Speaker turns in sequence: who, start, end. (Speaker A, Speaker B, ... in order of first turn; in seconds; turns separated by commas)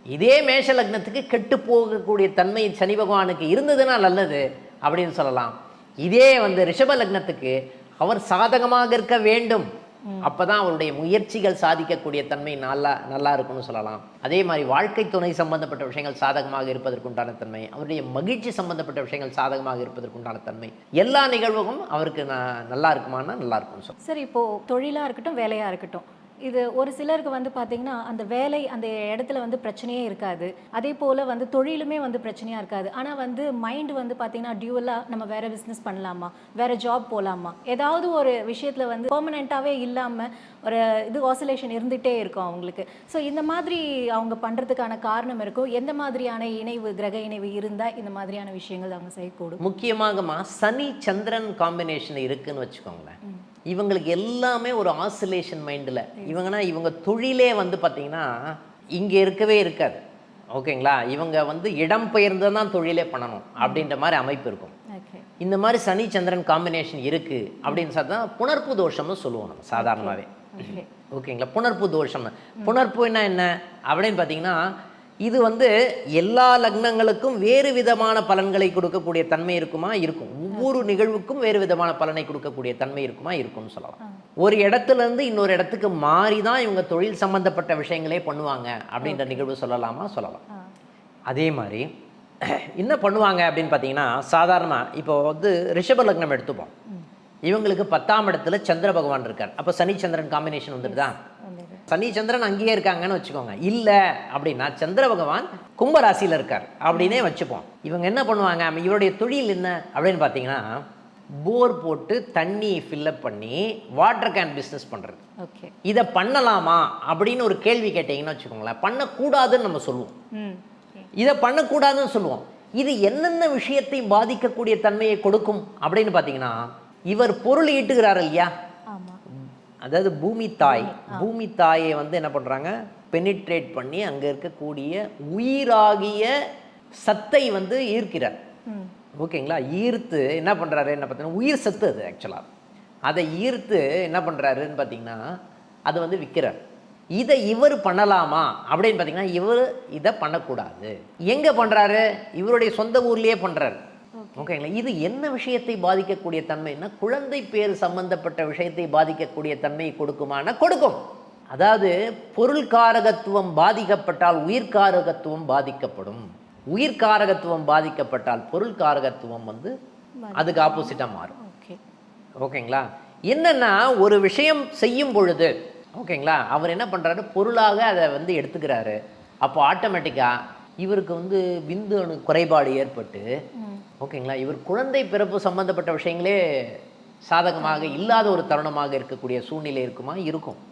Speaker A: 0.1-9.7, Speaker A: 10.2-23.9, Speaker B: 24.0-49.6, Speaker A: 49.6-53.2, Speaker A: 53.7-60.0, Speaker A: 60.5-64.8, Speaker B: 63.6-63.9, Speaker B: 64.9-65.3, Speaker A: 65.4-74.6, Speaker B: 69.8-70.9, Speaker A: 75.2-90.4, Speaker B: 80.5-80.9, Speaker B: 89.0-89.5, Speaker A: 91.3-91.9, Speaker A: 92.4-96.7, Speaker A: 97.5-101.2, Speaker B: 100.8-101.9, Speaker A: 101.9-110.8, Speaker B: 106.9-107.2, Speaker A: 111.4-115.2, Speaker B: 115.4-115.7, Speaker A: 115.8-120.1, Speaker B: 120.3-121.1, Speaker A: 121.2-128.5, Speaker B: 128.9-129.2, Speaker A: 129.8-136.3, Speaker B: 130.6-131.3, Speaker A: 137.0-138.4, Speaker B: 138.7-138.9, Speaker A: 139.2-142.5, Speaker A: 143.1-145.2, Speaker A: 145.9-146.6, Speaker A: 147.2-153.8, Speaker B: 154.2-154.5, Speaker A: 154.4-169.7, Speaker B: 170.2-171.8, Speaker A: 170.3-171.3, Speaker A: 172.4-183.2, Speaker B: 183.6-183.9, Speaker A: 184.0-190.6, Speaker B: 187.6-188.6